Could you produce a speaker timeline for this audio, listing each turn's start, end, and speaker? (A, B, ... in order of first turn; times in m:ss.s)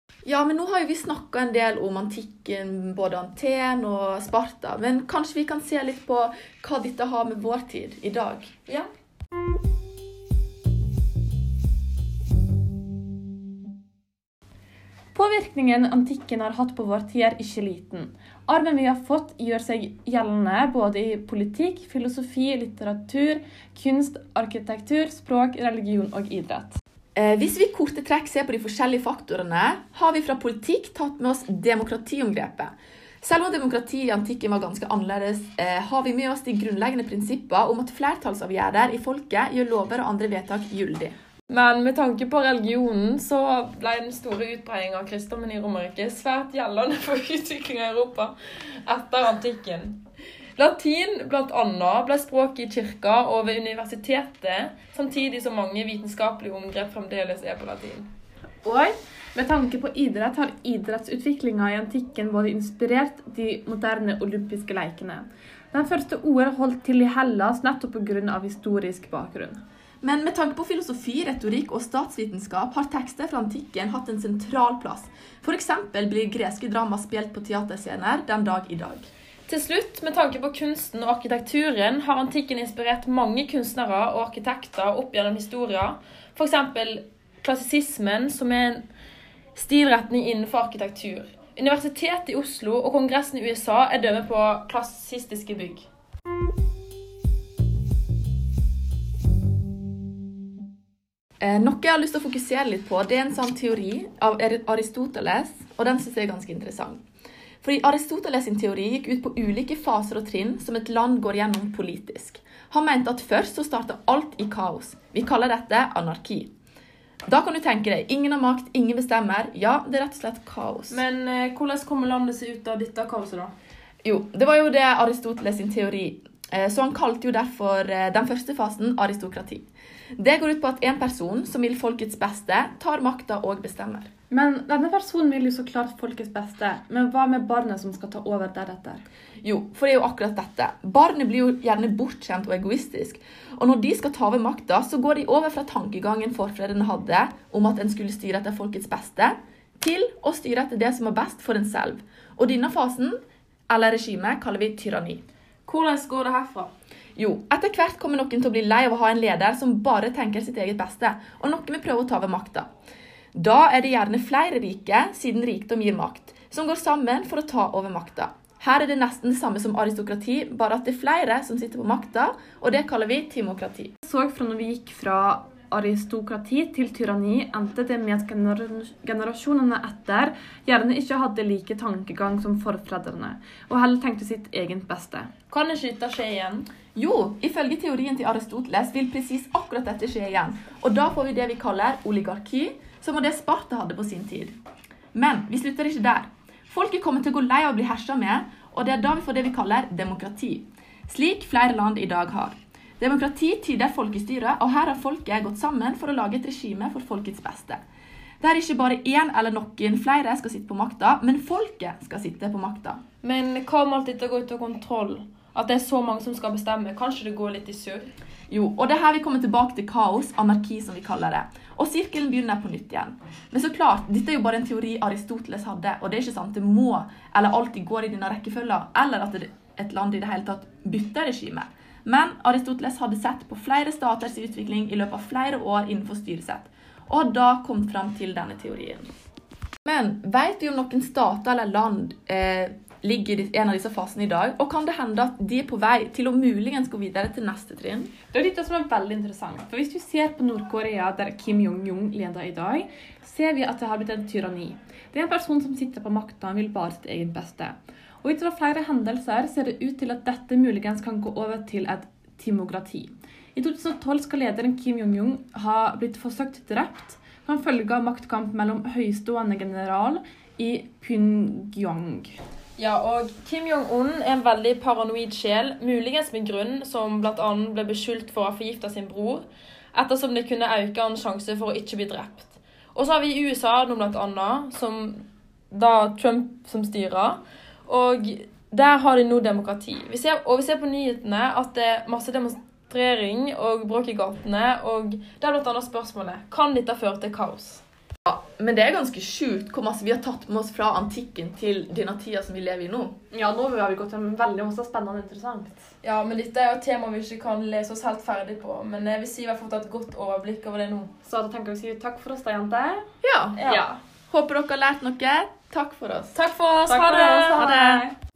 0:00.2-0:08.5 A
0:15.1-0:26.8 B
0:27.2-0:41.2 A
0:41.5-0:50.0 C
0:50.6-0:58.1 C
0:58.6-1:09.6 B
1:10.0-1:19.1 A
1:19.5-1:28.9 C
1:29.5-1:35.9 C
1:41.4-1:47.0 A
1:47.6-1:56.5 A
1:57.3-2:01.0 A
2:00.9-2:03.5 C
2:04.0-2:14.1 A
2:14.3-2:19.0 B
2:19.4-2:33.2 A
2:33.7-2:35.2 A
2:35.6-2:36.7 C
2:37.2-2:42.7 A
2:43.3-2:53.9 A
2:54.1-3:05.3 B
3:05.5-3:06.7 C
3:06.9-3:14.6 A
3:15.1-3:27.8 A
3:28.4-3:33.0 A
3:33.2-3:38.1 C
3:38.5-3:59.1 A
3:59.8-4:08.1 A
4:08.3-4:32.4 B
4:32.8-4:57.8 C
4:58.2-5:03.2 A
5:03.3-5:05.9 B
5:06.0-5:11.1 C
5:11.2-5:13.0 B
5:13.2-5:13.6 A
5:13.6-5:14.0 C
5:14.3-5:16.3 A
5:16.3-5:18.0 C
5:16.7-5:18.1 B